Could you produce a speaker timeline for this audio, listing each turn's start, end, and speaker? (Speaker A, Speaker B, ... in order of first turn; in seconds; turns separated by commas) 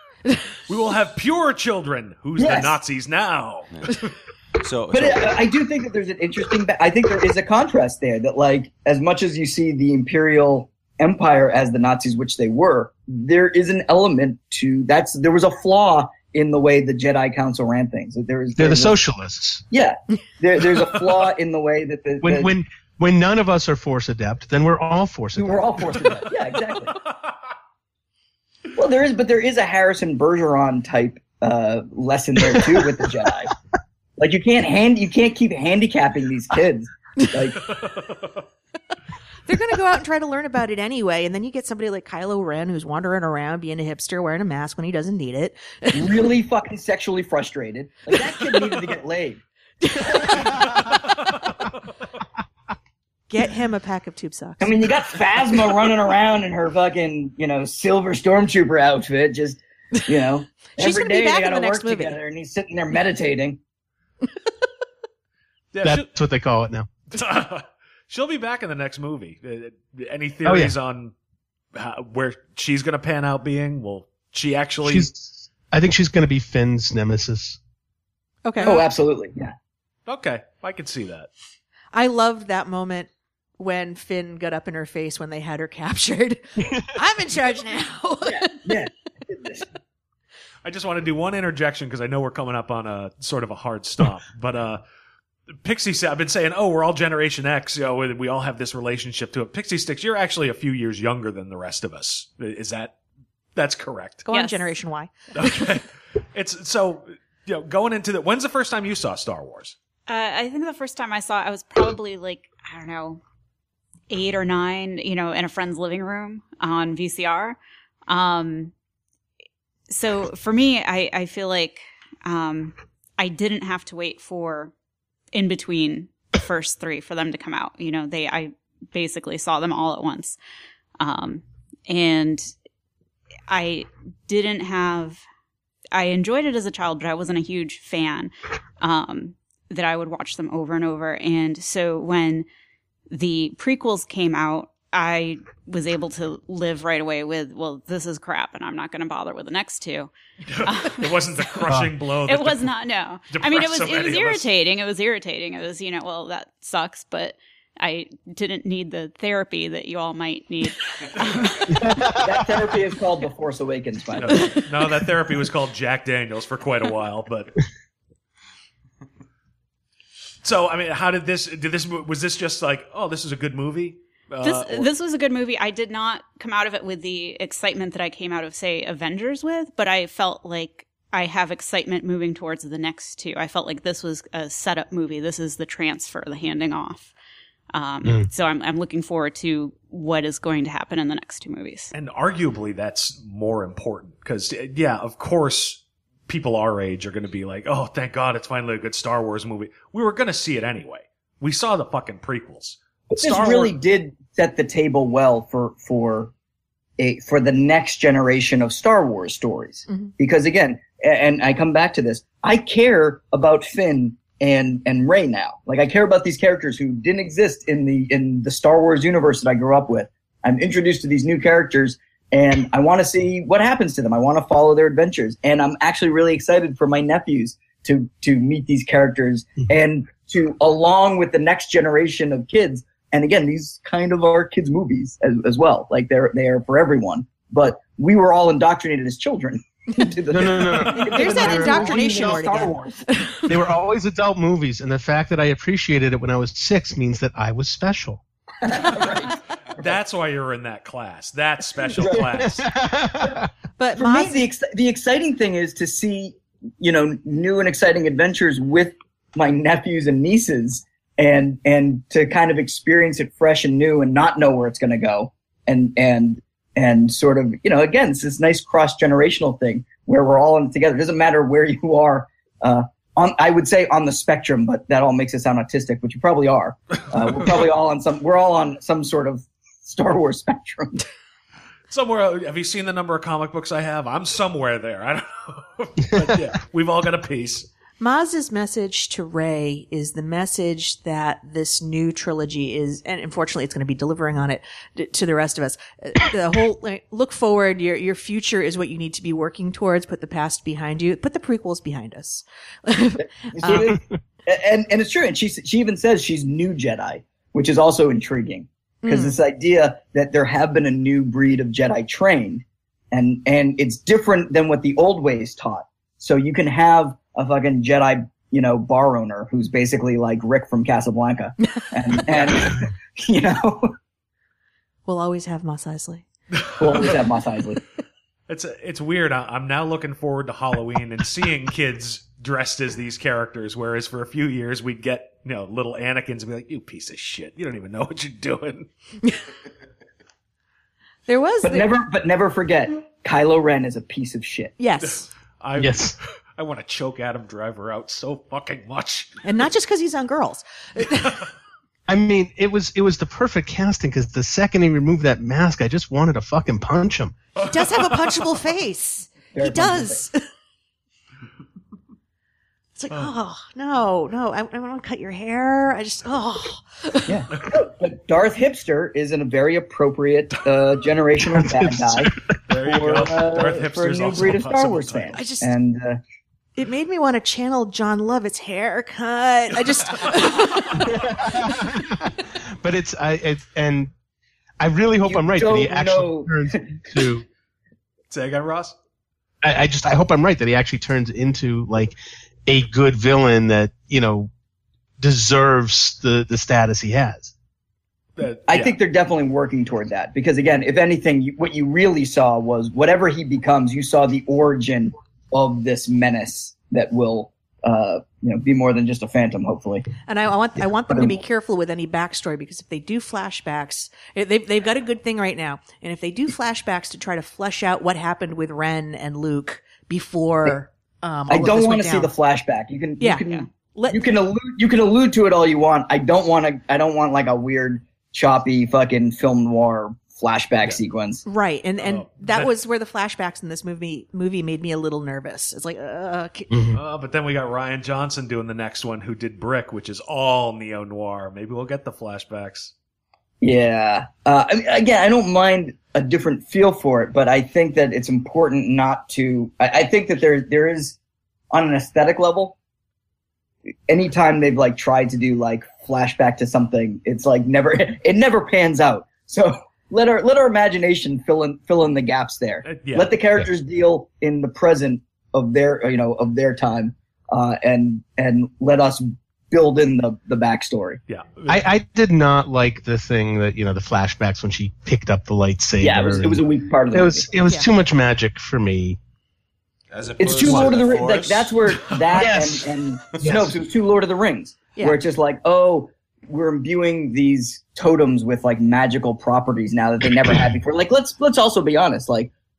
Speaker A: 0.7-3.7, Speaker B: 2.4-2.8, Speaker C: 3.7-4.0, Speaker C: 4.6-5.4, Speaker B: 4.9-19.0, Speaker D: 18.6-19.6, Speaker B: 19.7-22.5, Speaker D: 22.2-26.1, Speaker B: 25.4-26.9, Speaker B: 28.7-33.5, Speaker B: 34.2-37.6, Speaker A: 37.8-38.4, Speaker E: 39.5-46.3, Speaker B: 45.9-49.4, Speaker E: 49.8-51.3, Speaker E: 53.3-54.9, Speaker B: 54.6-63.6, Speaker E: 60.7-62.2, Speaker A: 65.7-66.1, Speaker D: 65.8-66.9, Speaker A: 67.1-71.1, Speaker D: 70.5-70.8, Speaker A: 71.8-75.1, Speaker D: 74.8-77.6, Speaker E: 78.5-78.9, Speaker B: 78.6-79.5, Speaker A: 80.1-81.3, Speaker E: 81.9-88.5, Speaker B: 88.2-89.7, Speaker A: 90.7-94.8, Speaker A: 95.6-103.0, Speaker A: 103.6-104.3, Speaker E: 104.3-105.7, Speaker F: 104.3-104.7, Speaker A: 105.3-109.8, Speaker F: 110.1-113.2, Speaker F: 114.1-118.7, Speaker F: 119.9-124.7, Speaker F: 125.3-130.4, Speaker F: 131.0-132.5, Speaker F: 133.5-135.2, Speaker F: 135.9-142.5, Speaker F: 143.1-151.7, Speaker A: 150.5-152.7, Speaker F: 152.2-160.8, Speaker A: 153.3-154.5, Speaker D: 161.7-162.5, Speaker B: 162.2-164.5, Speaker A: 164.2-167.6, Speaker A: 170.4-174.9, Speaker F: 174.4-187.1, Speaker F: 187.7-191.9, Speaker A: 191.9-203.7, Speaker B: 203.1-206.3, Speaker B: 207.0-243.0, Speaker D: 240.3-242.4, Speaker E: 241.1-243.6, Speaker D: 243.5-248.2, Speaker B: 248.6-249.9, Speaker A: 249.8-252.7, Speaker D: 252.3-253.5, Speaker E: 253.8-254.4, Speaker B: 254.0-281.0, Speaker A: 281.9-287.7, Speaker E: 288.0-303.9, Speaker B: 303.2-323.9, Speaker E: 309.0-309.4, Speaker A: 322.3-322.7, Speaker E: 325.1-326.2, Speaker A: 326.6-327.1, Speaker B: 326.8-327.8, Speaker A: 328.5-338.9, Speaker E: 341.3-341.9, Speaker B: 341.6-344.7, Speaker E: 344.8-345.2, Speaker A: 345.0-349.4, Speaker D: 345.8-346.2, Speaker E: 349.4-351.4, Speaker D: 352.1-357.4, Speaker E: 357.6-360.4, Speaker A: 357.6-358.3, Speaker B: 359.5-360.2, Speaker E: 363.0-367.4, Speaker B: 367.3-372.4, Speaker D: 371.7-372.0, Speaker A: 372.7-375.4, Speaker B: 372.9-376.2, Speaker E: 375.4-375.7, Speaker E: 376.8-381.2, Speaker A: 380.1-381.1, Speaker D: 381.0-384.1, Speaker D: 384.8-387.5, Speaker B: 385.2-387.2, Speaker A: 388.3-388.9, Speaker D: 389.6-392.1, Speaker D: 392.7-394.5, Speaker D: 395.2-397.5, Speaker A: 398.4-398.9, Speaker B: 398.7-410.1, Speaker E: 410.3-422.3, Speaker B: 411.1-411.4, Speaker B: 421.5-431.4, Speaker E: 423.2-424.2, Speaker E: 431.4-436.7, Speaker A: 432.0-432.7, Speaker D: 436.7-437.0, Speaker A: 436.9-442.9, Speaker B: 443.6-451.2, Speaker B: 451.7-452.8, Speaker B: 454.1-471.2, Speaker A: 462.9-463.3, Speaker A: 471.3-471.8, Speaker D: 471.7-479.2, Speaker B: 476.0-477.5, Speaker C: 480.1-482.8, Speaker B: 480.4-492.5, Speaker D: 482.4-483.8